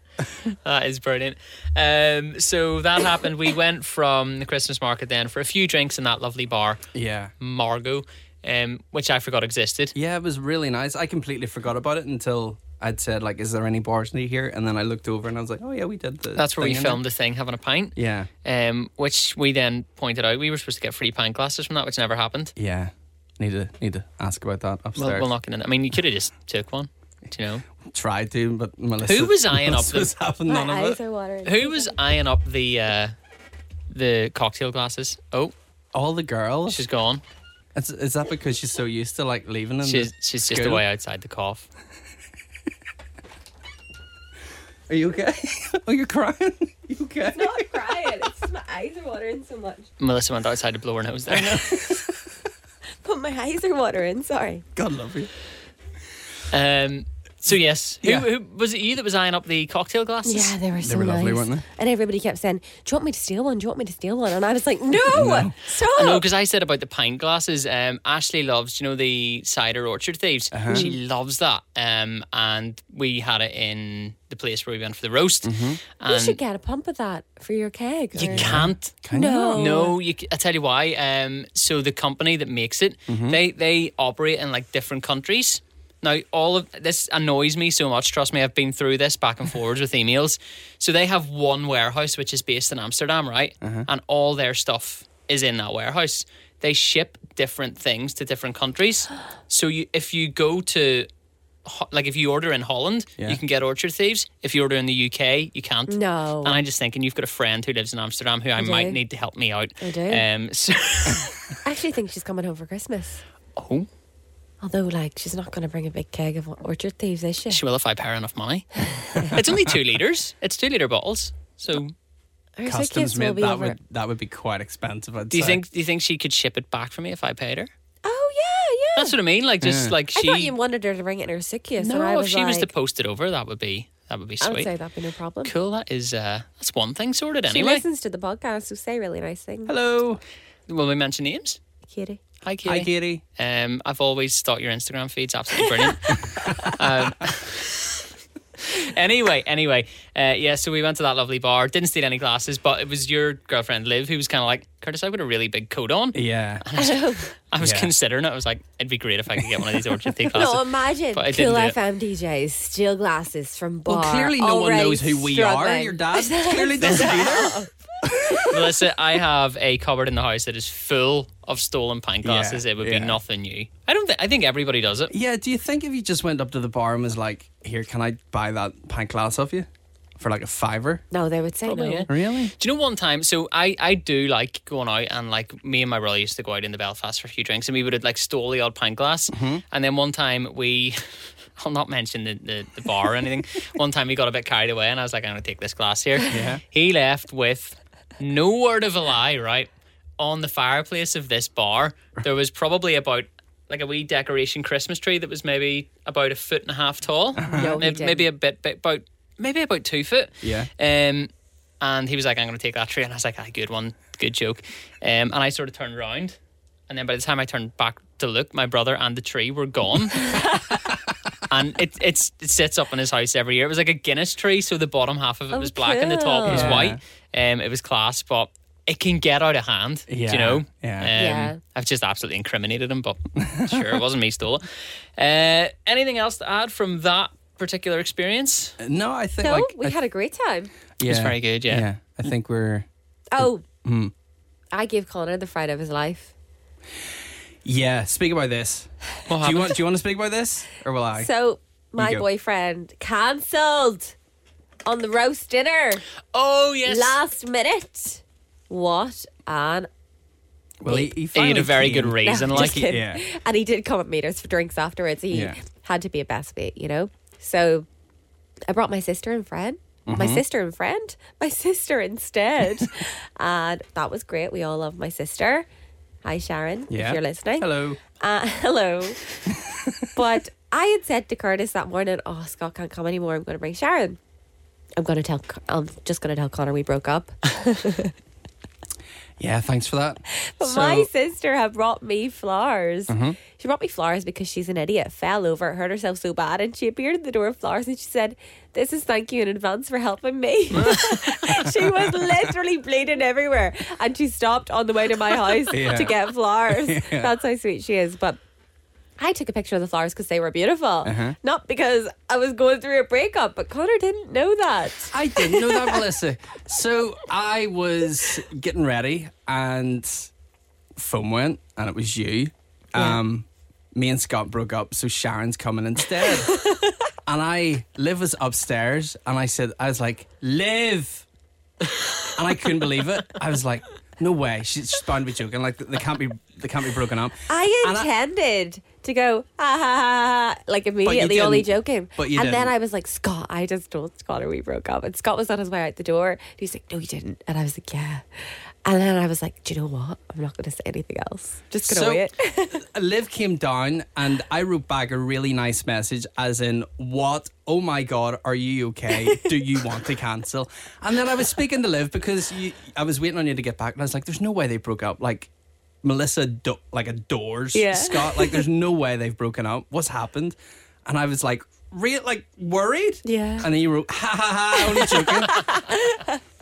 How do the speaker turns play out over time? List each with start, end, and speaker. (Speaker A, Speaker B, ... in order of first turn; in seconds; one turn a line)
Speaker A: 0.6-6.8
Speaker B: 6.9-7.3
Speaker A: 7.4-9.9
Speaker B: 9.9-17.0
Speaker A: 16.3-22.5
Speaker B: 17.9-18.3
Speaker B: 22.6-25.3
Speaker A: 24.9-27.6
Speaker B: 27.9-31.0
Speaker A: 29.0-30.1
Speaker C: 30.4-32.0
Speaker A: 31.4-33.1
Speaker A: 33.9-35.5
Speaker B: 35.9-36.8
Speaker A: 36.7-37.2
Speaker B: 37.7-40.8
Speaker A: 39.8-41.7
Speaker B: 44.9-48.3
Speaker C: 47.3-49.9
Speaker A: 50.0-52.0
Speaker B: 51.3-52.2
Speaker C: 53.0-54.6
Speaker B: 54.7-55.3
Speaker A: 56.5-60.5
Speaker C: 60.2-66.2
Speaker B: 60.8-61.6
Speaker B: 65.0-65.5
Speaker A: 65.9-76.4
Speaker B: 70.5-70.9
Speaker B: 75.4-75.8
Speaker C: 76.0-80.0
Speaker B: 78.2-79.8
Speaker A: 78.2-78.9
Speaker A: 79.5-101.1
Speaker B: 83.1-83.4
Speaker B: 93.6-93.9
Speaker A: 101.6-111.5
Speaker C: 105.9-106.6
Speaker C: 108.6-109.0
Speaker C: 109.8-110.2
Speaker C: 111.6-113.2
Speaker A: 113.5-113.9
Speaker C: 114.6-117.6
Speaker A: 117.5-121.9
Speaker B: 119.2-119.7
Speaker C: 122.6-123.8
Speaker B: 122.7-125.6
Speaker A: 125.3-127.7
Speaker C: 128.0-129.2
Speaker A: 128.9-130.5
Speaker B: 129.6-129.9
Speaker C: 130.1-132.7
Speaker A: 131.8-134.7
Speaker C: 134.4-135.5
Speaker A: 135.4-137.8
Speaker C: 137.5-139.7
Speaker B: 139.7-140.2
Speaker A: 140.7-141.6
Speaker C: 141.9-142.2
Speaker A: 142.4-147.8
Speaker B: 142.6-143.2
Speaker C: 145.8-146.7
Speaker B: 146.5-146.7
Speaker A: 148.6-161.8
Speaker B: 156.1-156.6
Speaker C: 156.8-157.3
Speaker B: 157.6-157.9
Speaker B: 159.4-159.6
Speaker C: 160.3-168.6
Speaker B: 163.9-168.6
Speaker A: 166.8-167.3
Speaker A: 168.4-175.1
Speaker B: 172.2-173.2
Speaker B: 175.1-181.0
Speaker C: 181.1-182.1
Speaker A: 181.7-211.3
Speaker B: 182.1-182.5
Speaker B: 189.3-189.6
Speaker B: 196.3-196.6
Speaker B: 207.3-207.8
Speaker C: 207.5-208.3
Speaker B: 210.4-210.7
Speaker A: 211.8-220.5
Speaker C: 220.3-220.6
Speaker B: 220.9-221.1
Speaker A: 221.5-238.8
Speaker C: 225.5-226.8
Speaker B: 226.4-227.0
Speaker B: 230.1-231.1
Speaker C: 231.2-231.6
Speaker B: 233.3-234.0
Speaker B: 238.8-239.9
Speaker C: 239.4-240.7
Speaker B: 241.0-242.9
Speaker A: 241.0-241.9
Speaker C: 243.3-243.6
Speaker B: 243.4-244.1
Speaker C: 244.7-246.3
Speaker B: 247.6-251.3
Speaker A: 249.3-249.8
Speaker C: 251.1-254.1
Speaker B: 252.0-252.2
Speaker C: 254.8-256.0
Speaker A: 256.3-257.2
Speaker C: 256.9-259.9
Speaker B: 260.8-263.2
Speaker C: 260.9-261.1
Speaker A: 261.3-262.8
Speaker C: 262.2-267.9
Speaker B: 265.3-265.6
Speaker C: 268.7-275.6
Speaker B: 270.1-270.4
Speaker C: 276.2-279.4
Speaker B: 276.9-278.0
Speaker B: 279.4-280.2
Speaker C: 280.1-284.2
Speaker C: 285.0-288.1
Speaker B: 289.4-291.1
Speaker C: 290.6-308.4
Speaker B: 293.1-293.4
Speaker B: 300.8-302.6
Speaker A: 300.8-301.2
Speaker B: 305.7-307.3
Speaker C: 309.2-316.1
Speaker B: 311.0-311.4
Speaker B: 315.1-320.3
Speaker B: 320.9-326.6
Speaker C: 326.4-326.9
Speaker B: 327.2-331.2
Speaker B: 332.3-338.1
Speaker C: 337.5-352.8
Speaker B: 341.0-342.7
Speaker B: 351.9-365.5
Speaker C: 359.1-359.7
Speaker B: 366.0-375.6
Speaker C: 367.7-368.6
Speaker C: 373.2-373.7
Speaker C: 374.8-376.4